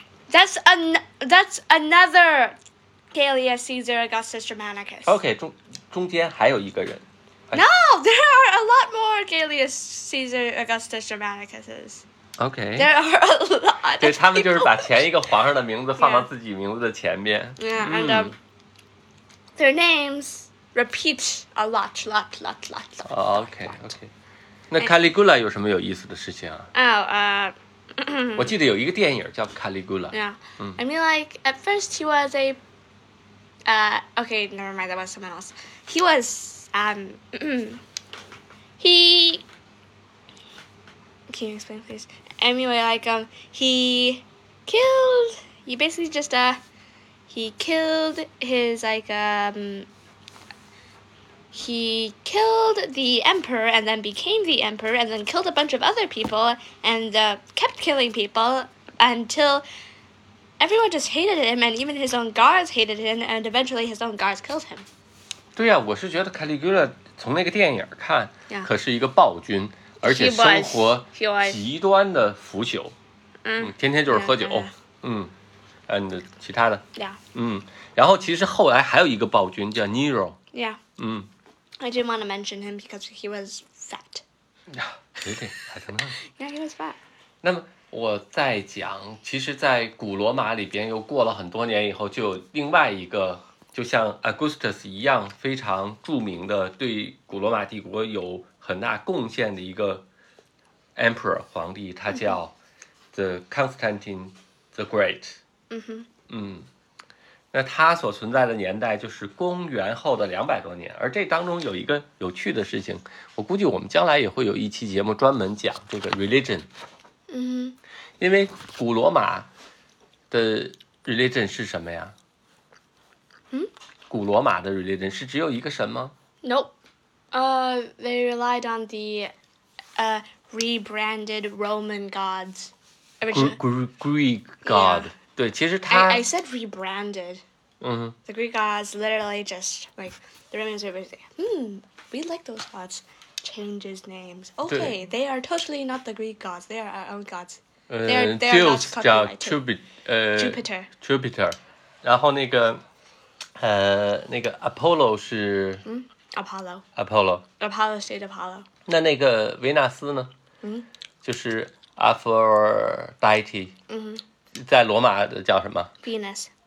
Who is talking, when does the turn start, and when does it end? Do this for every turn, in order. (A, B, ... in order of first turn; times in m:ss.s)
0:00.3-0:02.6 A
0:03.1-0:05.2 A
0:05.1-0:07.6 B
0:07.5-0:12.0 A
0:12.4-0:12.9 B
0:12.8-0:15.1 A
0:14.0-0:18.4 B
0:16.0-0:16.3 A
0:17.6-0:18.4 A
0:19.6-0:23.9 A
0:23.1-0:24.1 B
0:24.7-0:26.7 B
0:26.7-0:28.6 A
0:28.4-0:30.8 B
0:30.1-0:32.6 A
0:33.7-0:37.8 A
0:38.8-0:39.4 A
0:41.3-0:46.6 A
0:47.3-0:49.9 A
0:51.5-0:59.6 A
1:00.6-1:04.9 A
1:05.6-1:13.0 B
1:10.0-1:11.6 A
1:13.4-1:14.7 A
1:13.6-1:15.3 B
1:15.9-1:20.4 B
1:20.5-1:20.8 A
1:21.0-1:21.3 B
1:21.8-1:24.2 A
1:24.7-1:26.2 B
1:26.2-1:27.0 A
1:27.4-1:40.1 B
1:41.0-1:42.6 B
1:42.1-1:42.4 A
1:43.1-1:45.4 B
1:45.7-1:46.1 A
1:46.3-1:46.7 B
1:47.5-1:56.7 B
1:57.3-1:57.8 A
1:58.2-1:59.5 B
2:00.3-2:02.2 B
2:04.1-2:06.1 B
2:06.4-2:06.7 A
2:07.3-2:09.3 A
2:10.0-2:13.6 A
2:13.3-2:16.3 B
2:14.6-2:15.1 A
2:15.9-2:17.4 A
2:17.8-2:18.2 B
2:18.3-2:29.6 A
2:24.7-2:24.9 B
2:27.9-2:32.8 B
2:30.4-2:30.9 A
2:33.6-2:35.8 B
2:35.8-2:36.8 A
2:37.0-2:37.4 B
2:37.6-2:38.7 A
2:38.9-2:40.3 B
2:41.2-2:43.8 B
2:43.9-2:44.2 A
2:44.5-2:45.9 B
2:46.0-2:46.5 A